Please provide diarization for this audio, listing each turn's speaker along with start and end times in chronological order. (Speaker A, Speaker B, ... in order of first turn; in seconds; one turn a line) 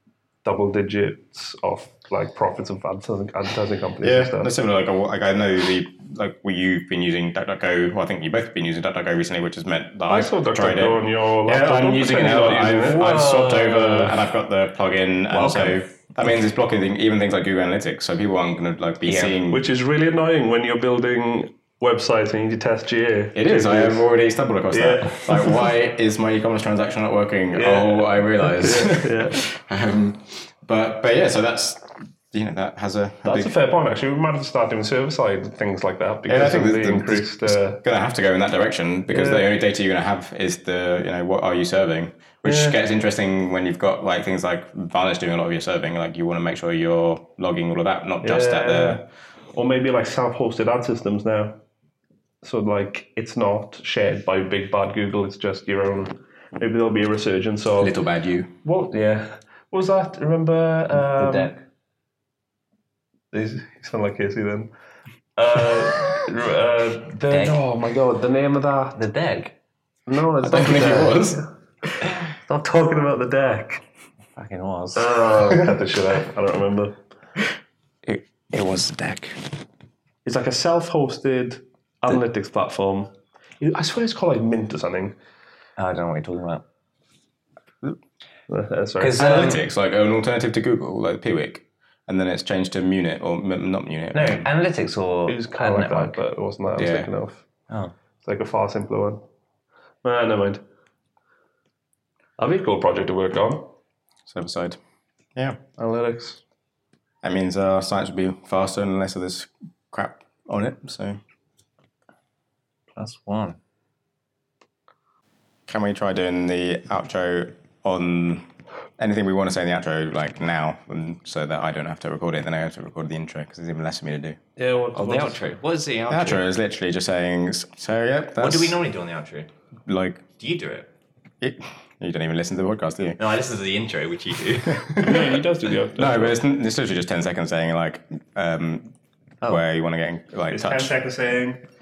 Speaker A: 0.4-4.5
Speaker B: 4.0-19.6
Speaker A: 10.1-14.2
Speaker C: 15.3-15.8
Speaker C: 19.0-19.4
Speaker A: 19.5-24.0
Speaker B: 23.3-33.5
Speaker A: 24.7-25.6
Speaker A: 27.5-29.4
Speaker A: 33.2-37.8
Speaker B: 36.3-49.0
Speaker A: 39.1-39.5
Speaker A: 42.4-42.8
Speaker A: 48.2-51.6
Speaker A: 52.4-58.0
Speaker B: 57.8-58.5
Speaker A: 58.6-61.5
Speaker C: 61.1-61.5
Speaker A: 63.3-64.7
Speaker A: 65.3-69.5
Speaker C: 67.2-67.6
Speaker C: 69.0-69.5
Speaker A: 70.1-71.4
Speaker B: 70.4-71.4
Speaker A: 72.0-73.8
Speaker C: 74.3-75.4
Speaker A: 75.0-77.0
Speaker C: 78.0-79.4
Speaker A: 80.2-85.2
Speaker C: 85.8-86.6
Speaker A: 88.5-89.2
Speaker C: 89.0-89.6
Speaker B: 89.2-94.5
Speaker C: 94.1-96.2
Speaker A: 95.3-97.4
Speaker B: 96.8-97.1
Speaker C: 97.7-97.9
Speaker A: 98.2-99.2
Speaker A: 100.0-100.6
Speaker A: 102.4-103.7
Speaker B: 104.3-104.8
Speaker A: 105.8-106.4
Speaker B: 107.2-111.2
Speaker C: 113.0-113.6
Speaker B: 115.7-124.4
Speaker A: 124.5-125.4
Speaker C: 124.9-126.4
Speaker B: 126.1-128.8
Speaker C: 128.4-129.5
Speaker B: 129.8-130.3
Speaker C: 130.4-130.9
Speaker B: 131.4-133.2
Speaker C: 133.2-135.1
Speaker B: 134.7-135.3
Speaker A: 135.0-136.3
Speaker B: 135.9-138.9
Speaker B: 139.5-140.9
Speaker A: 140.5-141.6